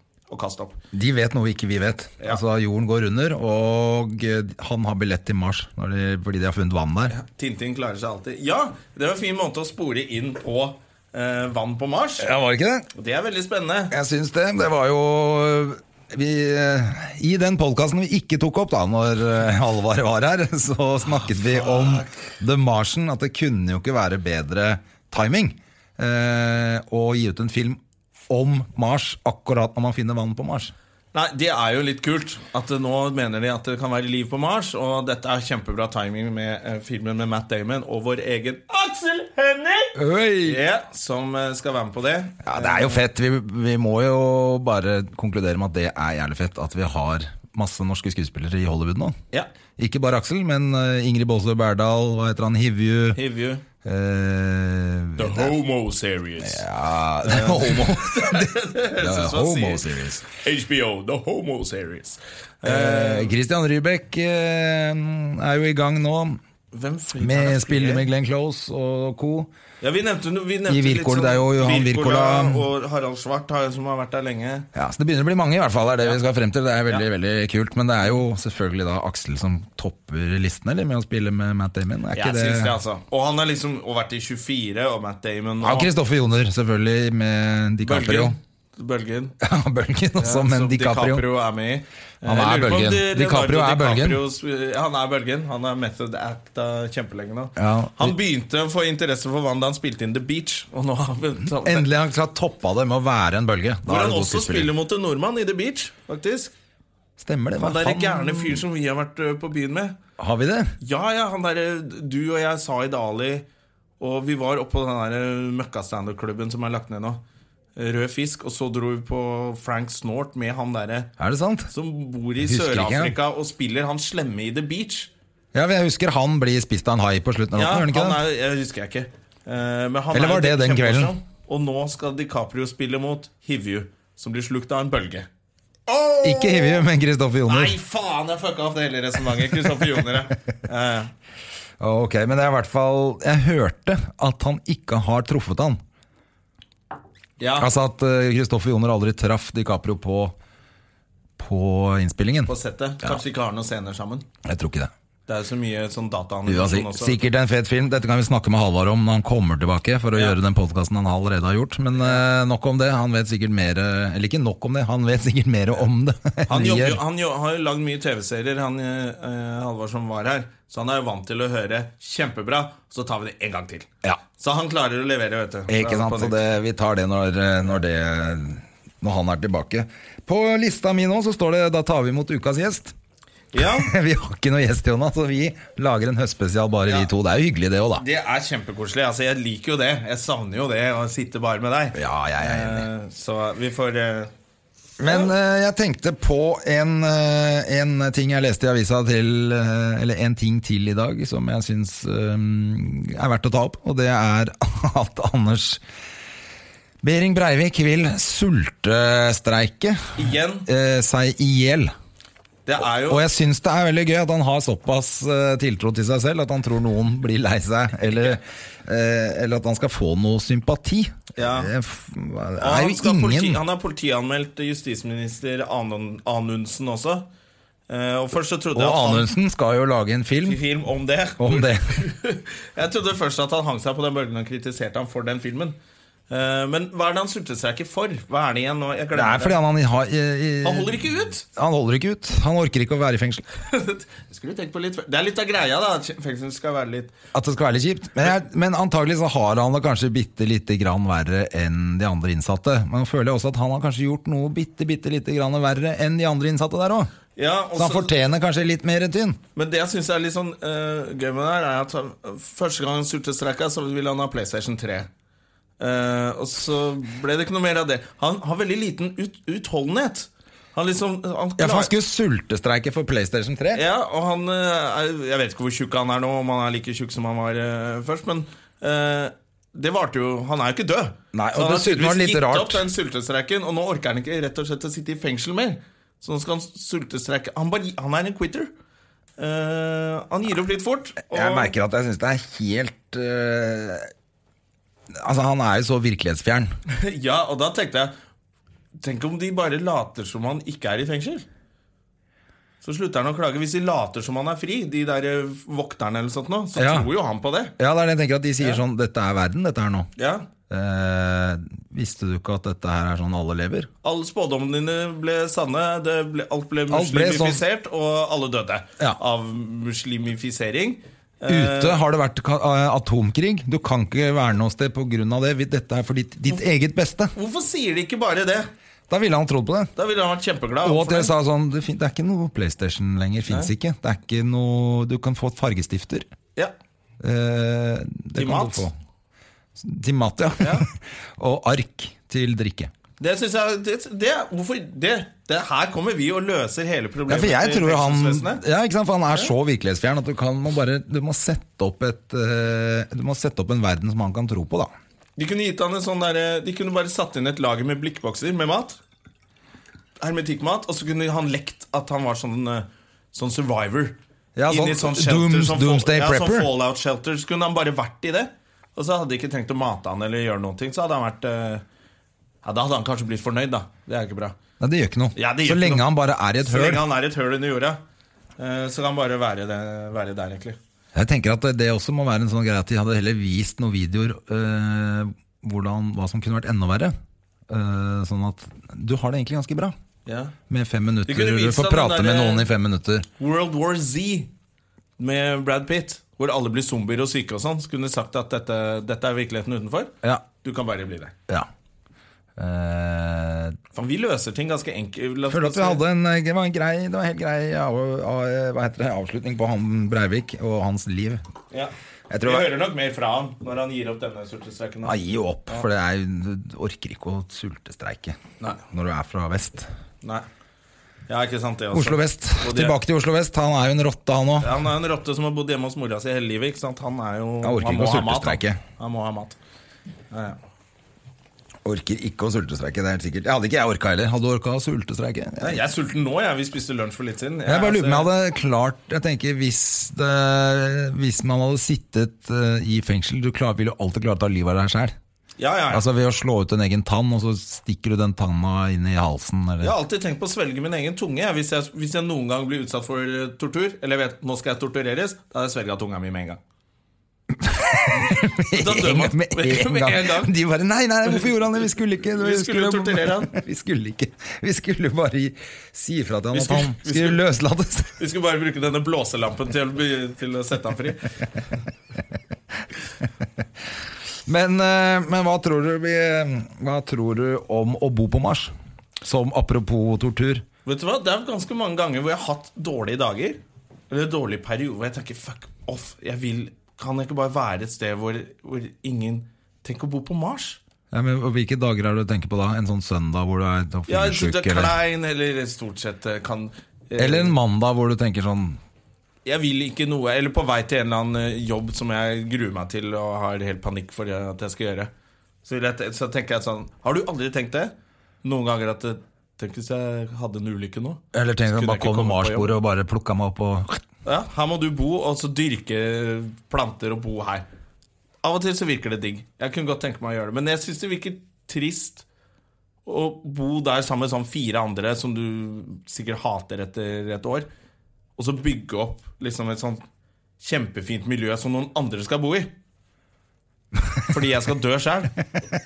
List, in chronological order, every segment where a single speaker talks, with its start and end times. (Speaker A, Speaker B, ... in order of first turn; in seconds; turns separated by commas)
Speaker A: 0.3-0.8, Speaker B: 0.9-7.1, Speaker A: 7.1-12.3, Speaker B: 12.2-12.9, Speaker A: 12.9-13.9, Speaker B: 13.9-30.7, Speaker A: 21.1-22.3, Speaker A: 31.1-43.0, Speaker B: 40.0-40.6, Speaker B: 42.4-49.1, Speaker B: 49.8-53.2, Speaker A: 53.1-53.6, Speaker B: 53.8-55.5, Speaker A: 55.2-56.6, Speaker B: 56.4-60.2, Speaker A: 57.2-63.3, Speaker B: 62.6-66.4, Speaker A: 66.7-68.1, Speaker B: 67.2-69.5, Speaker A: 69.8-74.7, Speaker B: 70.7-72.7, Speaker B: 74.7-82.8, Speaker A: 82.1-85.9, Speaker B: 85.6-88.4, Speaker A: 87.8-89.3, Speaker B: 89.4-91.2, Speaker A: 90.2-101.9, Speaker B: 92.2-94.2, Speaker B: 97.6-98.2, Speaker B: 101.5-104.7, Speaker A: 103.9-106.5, Speaker B: 107.2-108.6, Speaker A: 107.6-110.0, Speaker B: 110.2-110.7, Speaker A: 110.8-113.4, Speaker A: 114.0-117.2, Speaker A: 117.8-121.1, Speaker B: 121.2-121.7, Speaker A: 121.7-125.1, Speaker B: 122.4-123.2, Speaker B: 125.5-128.2, Speaker A: 127.5-135.3, Speaker B: 130.1-131.1, Speaker A: 135.9-136.8, Speaker B: 136.2-137.8, Speaker A: 137.5-141.1, Speaker B: 141.8-145.8, Speaker A: 147.4-147.7, Speaker B: 147.6-150.4, Speaker B: 151.4-152.5, Speaker A: 152.5-154.2, Speaker B: 154.4-154.9, Speaker A: 155.3-157.2, Speaker B: 156.4-167.0, Speaker A: 160.1-160.4, Speaker A: 162.0-162.2, Speaker A: 166.5-176.4, Speaker B: 175.7-182.9, Speaker A: 183.5-183.9, Speaker B: 183.6-188.1, Speaker A: 187.9-194.3, Speaker B: 191.9-192.9, Speaker B: 195.0-205.8, Speaker A: 195.1-195.3, Speaker B: 207.0-211.9, Speaker A: 210.2-210.7, Speaker A: 212.7-213.2, Speaker B: 213.1-223.6, Speaker A: 221.4-221.7, Speaker A: 222.6-227.3, Speaker A: 227.9-229.3, Speaker B: 228.7-230.6, Speaker A: 230.4-235.8, Speaker B: 231.4-232.0, Speaker A: 236.3-239.6, Speaker B: 239.1-243.4, Speaker A: 240.6-241.4, Speaker A: 243.6-247.1, Speaker B: 247.3-257.1, Speaker A: 257.4-258.1, Speaker B: 257.8-259.4, Speaker A: 259.6-265.1, Speaker A: 265.8-271.9, Speaker B: 271.6-273.8, Speaker A: 273.7-288.7, Speaker B: 281.3-282.9, Speaker A: 289.4-291.7, Speaker B: 291.3-294.1, Speaker B: 295.1-296.7, Speaker A: 296.9-298.1, Speaker A: 299.0-301.4, Speaker A: 302.8-307.7, Speaker B: 306.8-307.1, Speaker B: 307.8-310.1, Speaker A: 310.2-310.5, Speaker B: 310.7-313.9, Speaker A: 314.0-322.0, Speaker B: 316.9-317.6, Speaker B: 321.5-327.3, Speaker A: 327.3-328.7, Speaker B: 329.1-329.9, Speaker A: 329.9-331.3, Speaker B: 330.8-336.3, Speaker B: 337.2-338.9, Speaker A: 338.4-338.9, Speaker B: 339.8-342.9, Speaker A: 340.6-340.9, Speaker A: 343.2-348.6, Speaker B: 347.3-354.9, Speaker A: 355.4-359.0, Speaker A: 360.2-364.2, Speaker B: 364.6-366.7, Speaker A: 364.7-371.8, Speaker A: 372.6-374.6, Speaker B: 374.8-377.0, Speaker A: 375.4-376.1, Speaker A: 376.6-378.0, Speaker A: 378.6-380.8, Speaker B: 381.1-387.1, Speaker B: 387.7-389.9, Speaker A: 390.2-390.6, Speaker B: 390.7-393.3, Speaker A: 391.2-392.7, Speaker A: 393.4-394.5, Speaker A: 395.2-401.4, Speaker B: 402.6-403.8, Speaker A: 403.9-406.0, Speaker B: 405.5-411.4, Speaker B: 412.3-412.7, Speaker A: 412.4-415.1, Speaker B: 415.0-419.9, Speaker A: 421.3-422.9, Speaker B: 421.9-424.8, Speaker A: 424.6-429.6, Speaker B: 427.6-428.8, Speaker A: 430.3-430.6, Speaker B: 431.9-435.8, Speaker A: 435.6-438.3, Speaker B: 437.6-445.1, Speaker A: 445.6-446.1, Speaker B: 445.9-449.9, Speaker A: 449.8-456.6, Speaker B: 457.5-468.2, Speaker A: 458.1-460.5, Speaker A: 462.3-463.5, Speaker A: 466.5-467.4, Speaker A: 468.2-471.3, Speaker B: 474.4-480.6, Speaker A: 480.9-490.8, Speaker B: 491.1-495.0, Speaker A: 494.1-497.6, Speaker B: 497.2-498.8, Speaker A: 499.4-505.1, Speaker A: 505.6-512.7, Speaker B: 511.3-514.0, Speaker A: 514.2-517.6, Speaker A: 518.4-522.2, Speaker A: 523.1-527.7, Speaker A: 528.4-530.0, Speaker A: 530.6-532.7, Speaker B: 534.0-534.2, Speaker A: 534.3-535.4